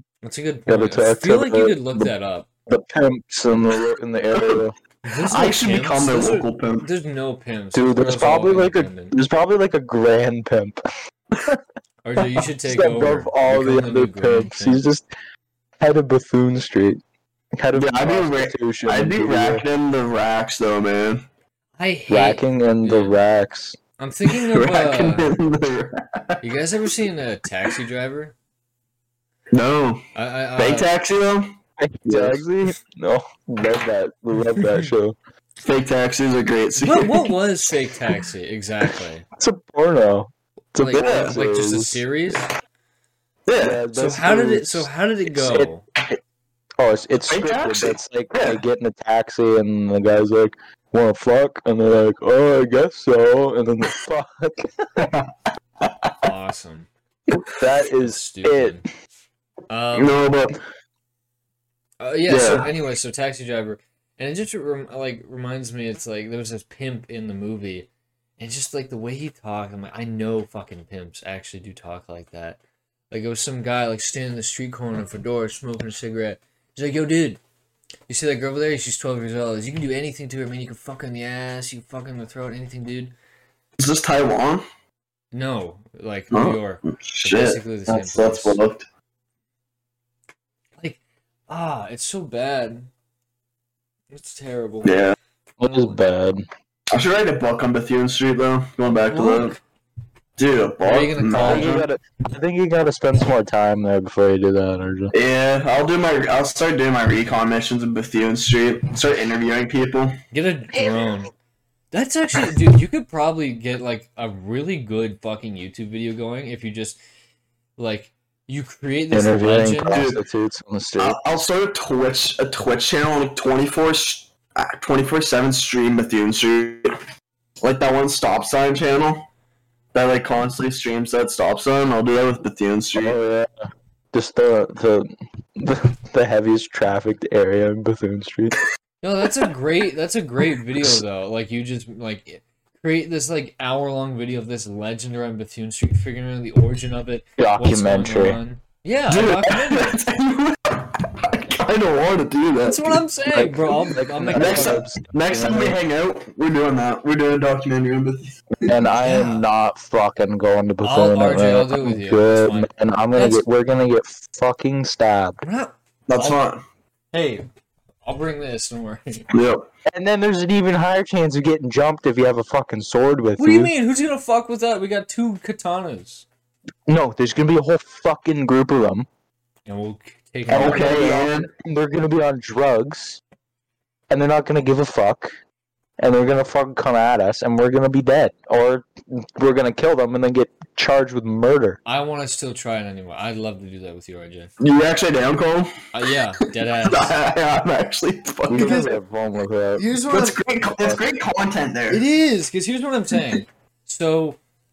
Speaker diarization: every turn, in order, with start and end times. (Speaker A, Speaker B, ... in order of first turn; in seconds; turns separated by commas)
Speaker A: 0.2-2.5, Speaker B: 0.7-2.1, Speaker B: 2.7-4.8, Speaker A: 5.0-9.1, Speaker C: 5.3-6.9, Speaker B: 7.7-10.8, Speaker A: 12.0-14.9, Speaker B: 12.6-15.1, Speaker B: 15.8-17.0, Speaker B: 17.6-19.6, Speaker C: 17.7-21.2, Speaker A: 21.8-23.2, Speaker B: 22.1-23.8, Speaker A: 24.0-25.4, Speaker C: 24.3-26.4, Speaker A: 26.4-28.4, Speaker C: 29.5-30.1, Speaker A: 30.1-30.9, Speaker C: 30.6-32.4, Speaker B: 31.8-35.2, Speaker A: 34.5-34.9, Speaker C: 35.6-37.4, Speaker A: 36.8-39.3, Speaker B: 39.4-42.0, Speaker A: 40.8-42.5, Speaker C: 40.9-41.4, Speaker C: 43.5-43.8, Speaker B: 43.6-46.1, Speaker A: 43.9-45.9, Speaker B: 46.8-55.1, Speaker C: 47.3-48.6, Speaker C: 55.0-55.3, Speaker C: 55.9-56.1, Speaker A: 56.2-56.9, Speaker B: 57.3-58.8, Speaker A: 58.0-58.9, Speaker A: 59.7-60.2, Speaker C: 59.9-60.6, Speaker A: 62.0-72.6, Speaker C: 62.3-62.7, Speaker A: 73.1-77.4, Speaker A: 78.1-83.2, Speaker C: 83.8-84.7, Speaker A: 85.3-88.6, Speaker C: 86.3-88.9, Speaker A: 90.8-92.9, Speaker A: 94.1-95.0, Speaker C: 94.8-95.2, Speaker B: 95.6-96.5, Speaker C: 96.9-99.6, Speaker A: 98.9-99.6, Speaker C: 100.4-101.8, Speaker A: 100.8-101.7, Speaker B: 101.3-105.1, Speaker C: 105.1-110.2, Speaker A: 110.3-111.3, Speaker A: 111.9-117.0, Speaker A: 117.8-120.0, Speaker B: 119.1-121.2, Speaker C: 119.9-120.2, Speaker C: 121.0-127.0, Speaker C: 127.6-129.3, Speaker C: 129.9-133.2, Speaker B: 133.0-138.6, Speaker A: 139.0-149.9, Speaker B: 147.4-148.4, Speaker C: 149.1-153.1, Speaker A: 152.7-154.8, Speaker B: 153.3-155.8, Speaker C: 154.3-158.8, Speaker B: 158.6-165.4, Speaker A: 159.0-159.5, Speaker A: 160.8-163.5, Speaker A: 165.4-166.4, Speaker C: 166.1-166.6, Speaker A: 167.1-167.4, Speaker A: 168.1-169.3, Speaker C: 169.3-169.6, Speaker B: 169.9-173.7, Speaker A: 173.4-176.3, Speaker B: 176.9-179.1, Speaker A: 179.7-181.0, Speaker B: 180.5-183.2, Speaker C: 180.5-181.5, Speaker B: 184.1-185.3, Speaker B: 186.0-191.8, Speaker A: 191.9-194.5, Speaker C: 194.6-195.8, Speaker A: 195.9-197.2, Speaker C: 196.8-198.8, Speaker B: 198.5-199.9, Speaker A: 198.5-199.0, Speaker A: 199.8-200.4, Speaker C: 200.1-202.0, Speaker B: 200.8-201.0, Speaker A: 201.9-204.4